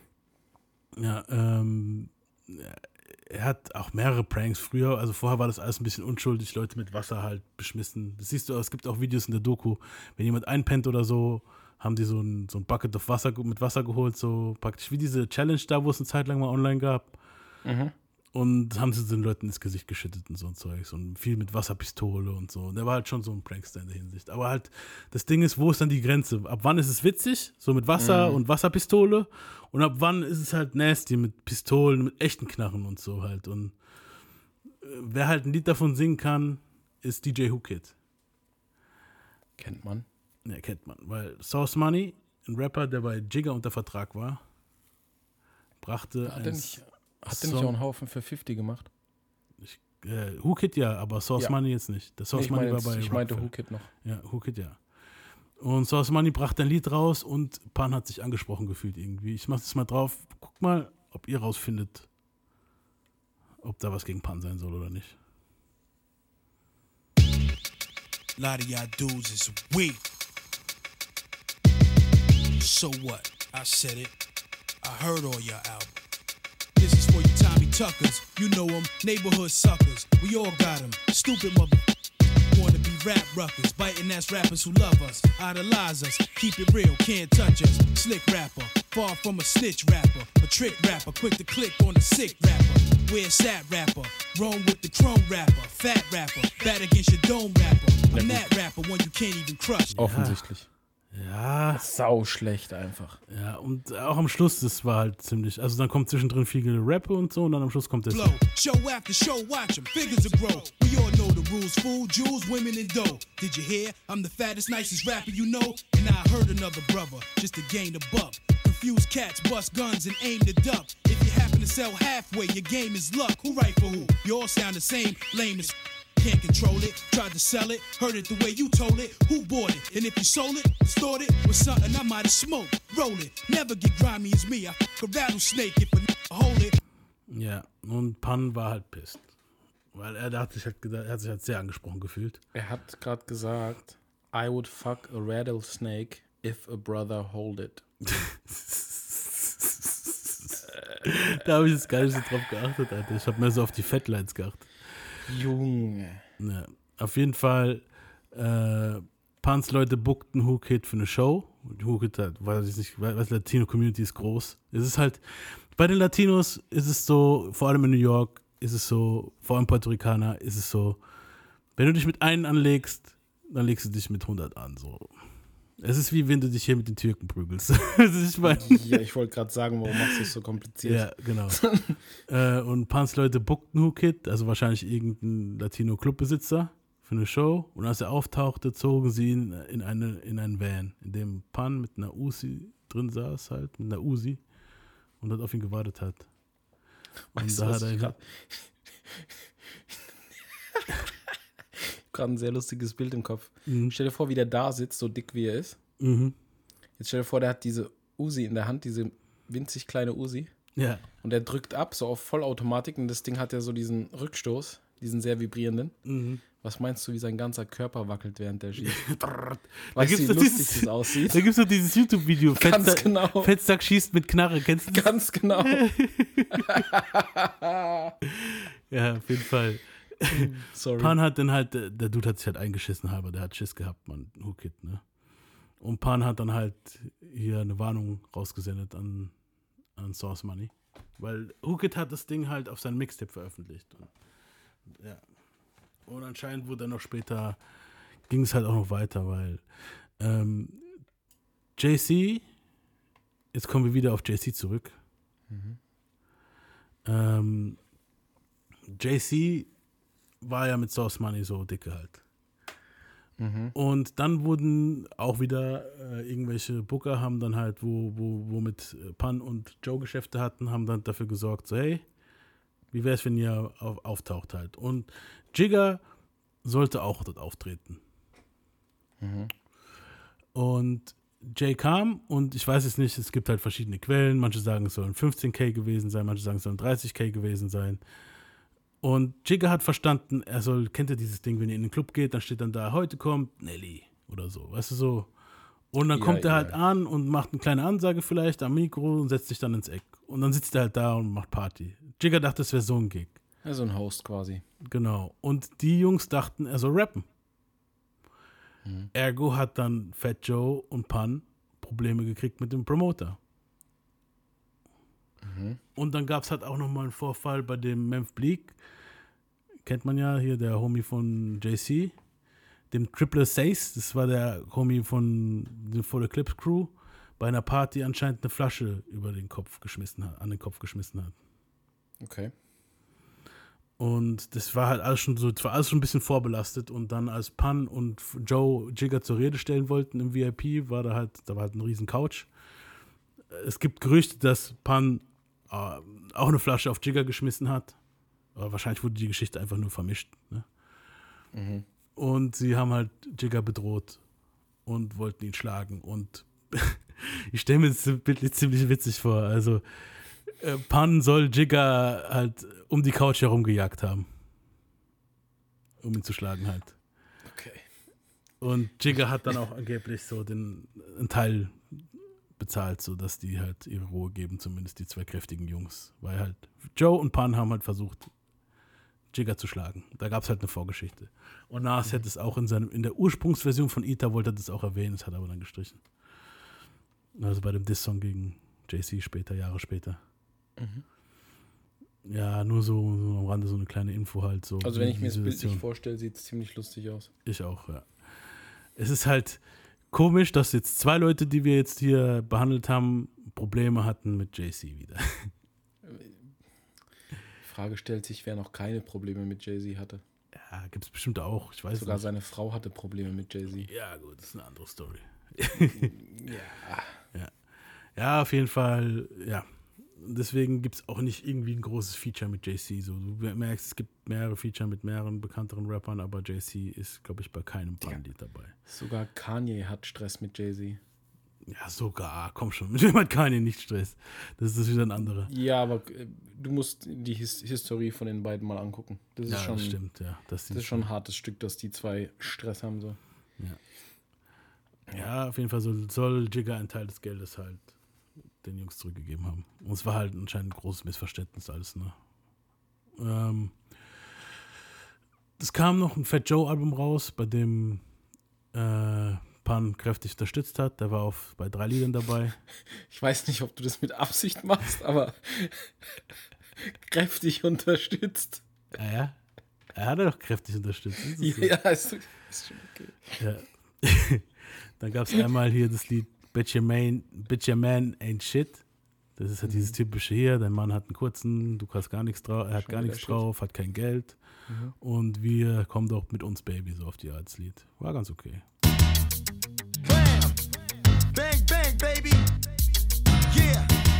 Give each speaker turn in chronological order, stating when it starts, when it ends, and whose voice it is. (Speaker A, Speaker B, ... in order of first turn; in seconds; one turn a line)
Speaker A: 1.0-17.2
Speaker B: 17.6-17.9
Speaker A: 18.3-33.8
Speaker B: 28.0-28.4
Speaker A: 34.8-37.9
Speaker B: 39.6-40.0
Speaker A: 40.4-44.4
Speaker A: 45.8-47.7
Speaker B: 46.2-48.9
Speaker A: 49.6-54.8
Speaker B: 52.3-53.9
Speaker A: 55.6-62.1
Speaker A: 63.6-65.2
Speaker C: 68.3-70.1
Speaker C: 72.6-74.1
Speaker C: 74.8-76.0
Speaker C: 76.7-81.8
Speaker C: 82.5-99.9
Speaker B: 98.1-98.5
Speaker A: 100.0-100.5
Speaker B: 100.0-100.7
Speaker A: 101.1-101.8
Speaker B: 101.7-103.2
Speaker A: 103.3-108.4
Speaker C: 108.1-136.8
Speaker A: 137.3-139.3
Speaker A: 139.9-142.4
Speaker B: 142.5-147.8
Speaker A: 148.1-155.0
Speaker B: 155.3-156.2
Speaker A: 156.4-171.0
Speaker A: 171.8-175.2
Speaker A: 175.8-178.8
Speaker B: 178.4-181.9
Speaker A: 180.8-194.4
Speaker A: 195.2-196.3
Speaker A: 197.3-198.1
Speaker B: 197.3-199.2
Speaker B: 201.9-205.8
Speaker A: 203.7-203.9
Speaker A: 206.0-206.3
Speaker B: 207.0-210.5
Speaker A: 210.8-211.1
Speaker B: 211.2-216.0
Speaker A: 216.1-216.4
Speaker B: 216.5-219.0
Speaker A: 218.8-226.8
Speaker B: 219.9-221.5
Speaker B: 222.4-223.5
Speaker B: 224.9-225.8
Speaker B: 226.5-228.1
Speaker A: 228.4-235.1
Speaker B: 230.3-231.2
Speaker A: 235.8-239.4
Speaker A: 239.9-244.1
Speaker A: 246.1-247.6
Speaker A: 248.3-249.7
Speaker A: 250.2-250.8
Speaker A: 251.8-252.5
Speaker A: 253.5-254.9
Speaker B: 255.5-255.8
Speaker A: 257.0-257.8
Speaker A: 259.0-259.7
Speaker A: 260.4-262.2
Speaker B: 263.4-263.7
Speaker A: 263.7-272.0
Speaker A: 272.9-276.0
Speaker A: 276.6-278.0
Speaker B: 279.2-279.5
Speaker A: 280.5-288.0
Speaker A: 289.0-295.3
Speaker A: 295.9-303.4
Speaker B: 296.1-296.8
Speaker B: 303.6-304.6
Speaker A: 304.9-307.2
Speaker B: 308.8-309.1
Speaker A: 309.1-313.4
Speaker B: 315.4-315.8
Speaker A: 315.9-318.8
Speaker A: 319.8-322.1
Speaker A: 322.9-331.3
Speaker B: 332.2-332.5
Speaker A: 334.0-342.5
Speaker A: 343.5-348.0
Speaker A: 348.5-350.7
Speaker B: 351.5-351.8
Speaker A: 352.1-354.2
Speaker A: 354.8-359.8
Speaker A: 360.5-364.3
Speaker A: 366.0-366.9
Speaker B: 367.4-367.8
Speaker A: 368.6-372.0
Speaker A: 372.6-378.3
Speaker A: 379.3-386.0
Speaker A: 387.4-390.2
Speaker B: 390.8-391.0
Speaker A: 392.2-395.8
Speaker B: 394.8-397.3
Speaker A: 397.4-398.2
Speaker A: 398.9-399.6
Speaker A: 400.1-405.5
Speaker B: 406.0-406.5
Speaker B: 407.6-410.2
Speaker A: 410.6-412.3
Speaker B: 411.9-413.9
Speaker A: 413.9-416.1
Speaker B: 415.8-417.2
Speaker A: 418.1-428.7
Speaker B: 428.9-431.0
Speaker A: 431.7-435.5
Speaker B: 435.2-440.0
Speaker A: 439.5-441.1
Speaker B: 440.7-443.2
Speaker A: 445.1-447.9
Speaker A: 448.6-452.2
Speaker A: 453.2-453.9
Speaker A: 455.6-458.0
Speaker A: 458.7-462.6
Speaker B: 463.1-465.9
Speaker B: 466.8-468.6
Speaker A: 468.9-469.4
Speaker A: 469.9-471.7
Speaker B: 471.4-473.4
Speaker A: 473.4-478.8
Speaker A: 479.3-484.4
Speaker B: 479.6-479.9
Speaker B: 482.8-483.4
Speaker B: 484.7-484.9
Speaker A: 485.0-488.6
Speaker D: 490.0-490.6
Speaker D: 491.3-492.4
Speaker D: 493.5-493.9